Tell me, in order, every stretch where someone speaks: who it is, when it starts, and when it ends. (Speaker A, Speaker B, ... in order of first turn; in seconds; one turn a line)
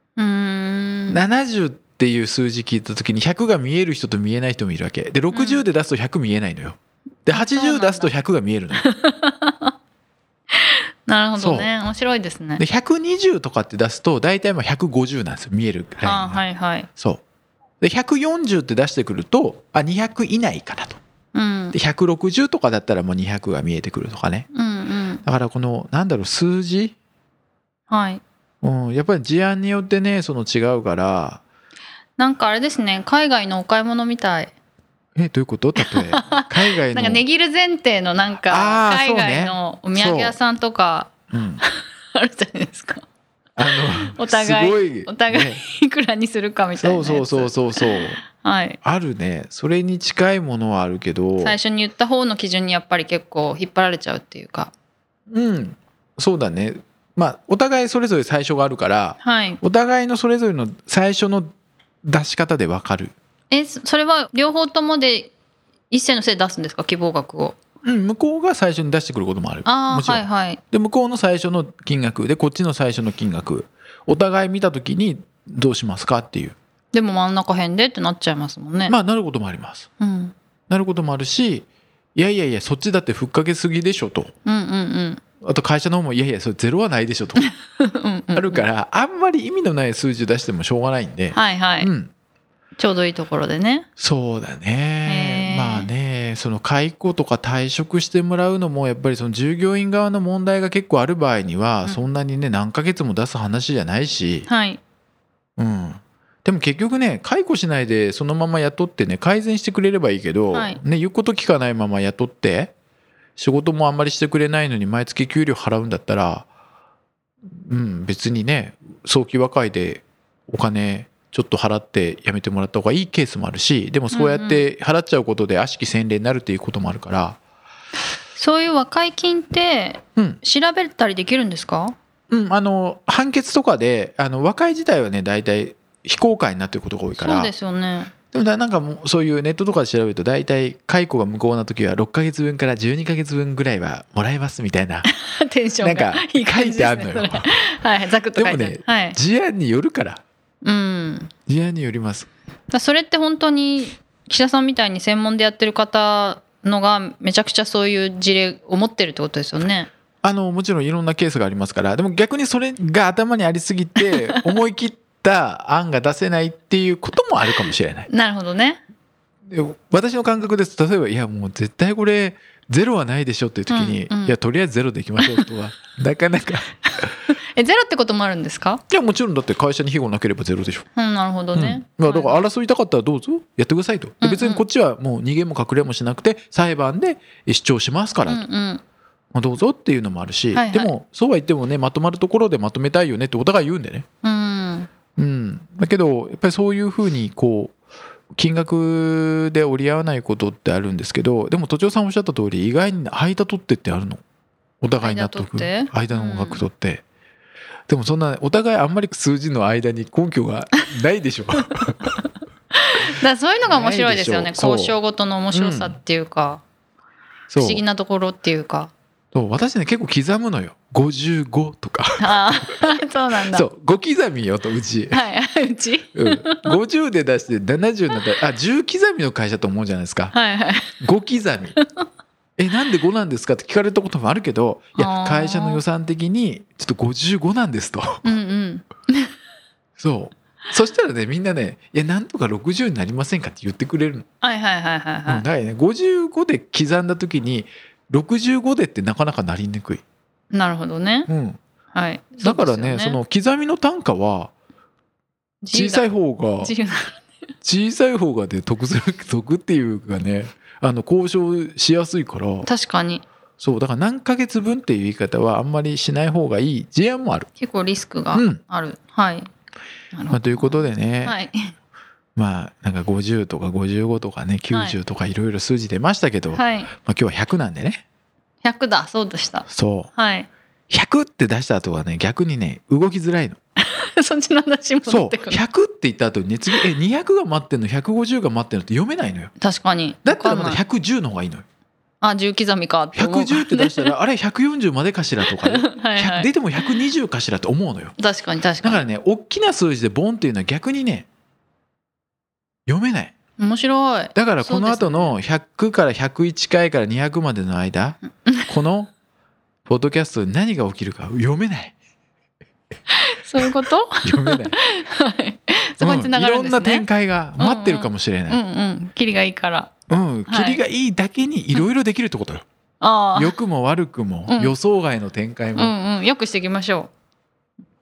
Speaker A: 0.2-1.2
Speaker B: 1.1-8.9
Speaker A: 5.3-5.7
Speaker A: 7.3-8.1
Speaker A: 8.8-9.7
Speaker A: 10.6-12.6
Speaker B: 11.4-11.7
Speaker B: 12.6-16.4
Speaker A: 16.0-16.9
Speaker B: 17.0-17.2
Speaker B: 17.8-21.0
Speaker A: 21.3-21.8
Speaker B: 21.7-24.5
Speaker A: 24.5-25.2
Speaker B: 25.2-26.9
Speaker A: 27.9-28.2
Speaker B: 28.6-31.4
Speaker A: 32.2-34.5
Speaker B: 35.2-37.2
Speaker A: 35.8-41.1
Speaker B: 38.5-40.4
Speaker B: 41.3-41.6
Speaker A: 41.6-43.0
Speaker B: 43.6-45.6
Speaker A: 43.8-48.8
Speaker B: 46.8-48.2
Speaker B: 48.8-51.6
Speaker A: 51.4-54.7
Speaker B: 55.3-61.5
Speaker A: 59.2-59.6
Speaker B: 62.0-63.1
Speaker A: 63.5-65.3
Speaker A: 65.9-67.5
Speaker B: 67.8-76.6
Speaker A: 69.7-70.6
Speaker A: 76.9-79.0
Speaker B: 78.9-79.9
Speaker A: 80.0-80.3
Speaker B: 80.7-84.3
Speaker A: 84.5-85.2
Speaker B: 85.4-87.5
Speaker A: 87.4-88.7
Speaker B: 88.3-92.1
Speaker A: 91.3-91.9
Speaker A: 92.8-93.9
Speaker B: 94.0-104.5
Speaker A: 95.1-95.9
Speaker A: 104.5-104.8
Speaker B: 105.6-112.7
Speaker A: 110.5-110.8
Speaker B: 113.4-116.5
Speaker B: 117.7-127.4
Speaker A: 124.1-124.6
Speaker A: 128.4-131.9
Speaker B: 132.3-137.5
Speaker A: 137.2-138.1
Speaker B: 138.3-145.1
Speaker A: 145.1-149.2
Speaker B: 145.8-147.5
Speaker B: 148.3-150.2
Speaker A: 150.6-151.3
Speaker B: 151.5-152.3
Speaker A: 152.7-159.9
Speaker B: 160.2-168.1
Speaker A: 164.1-164.4
Speaker A: 168.1-168.8
Speaker B: 169.5-177.1
Speaker A: 173.7-174.4
Speaker A: 175.2-175.5
Speaker A: 177.6-178.8
Speaker B: 178.9-180.8
Speaker A: 180.9-182.4
Speaker B: 181.5-188.4
Speaker A: 184.2-184.6
Speaker A: 188.3-188.8
Speaker B: 189.3-194.1
Speaker A: 190.5-190.9
Speaker A: 194.2-194.9
Speaker B: 195.2-197.8
Speaker B: 198.3-204.2
Speaker B: 204.8-207.0
Speaker A: 205.0-206.7
Speaker B: 207.9-212.1
Speaker A: 212.8-216.6
Speaker B: 213.6-215.0
Speaker B: 215.5-216.0
Speaker B: 217.5-217.8
Speaker A: 217.6-218.9
Speaker B: 219.3-222.6
Speaker A: 222.2-223.7
Speaker B: 223.4-225.2
Speaker A: 225.1-226.8
Speaker B: 226.2-230.3
Speaker A: 230.3-230.9
Speaker B: 231.0-231.8
Speaker A: 231.8-232.1
Speaker B: 232.6-238.3
Speaker A: 235.0-235.8
Speaker A: 238.2-239.3
Speaker B: 240.0-244.3
Speaker A: 244.4-245.5
Speaker B: 245.3-250.0
Speaker A: 250.5-251.3
Speaker B: 251.3-251.6
Speaker A: 251.9-253.2
Speaker B: 252.4-254.5
Speaker A: 255.6-256.1
Speaker B: 255.7-256.7
Speaker A: 256.6-257.2
Speaker B: 257.6-262.7
Speaker A: 262.6-263.2
Speaker B: 263.6-267.5
Speaker A: 267.6-269.5
Speaker B: 268.3-268.6
Speaker A: 270.1-271.7
Speaker B: 270.3-271.4
Speaker B: 272.4-278.0
Speaker A: 274.7-275.0
Speaker A: 276.5-276.9
Speaker A: 278.6-280.5
Speaker B: 279.7-280.1
Speaker B: 280.9-283.6
Speaker A: 283.8-285.6
Speaker B: 285.1-289.5
Speaker A: 289.6-290.8
Speaker B: 290.2-291.6
Speaker A: 292.2-294.2
Speaker B: 293.1-298.1
Speaker A: 295.5-297.0
Speaker A: 298.2-299.1
Speaker B: 298.8-301.3
Speaker B: 302.9-303.3
Speaker A: 303.6-305.3
Speaker B: 304.4-309.1
Speaker B: 309.9-311.9
Speaker A: 313.1-317.1
Speaker B: 314.2-314.8
Speaker B: 316.0-318.6
Speaker A: 317.6-319.9
Speaker B: 320.1-322.6
Speaker A: 320.5-320.8
Speaker A: 323.0-323.6
Speaker B: 323.4-325.9
Speaker A: 324.5-324.8
Speaker A: 325.8-327.1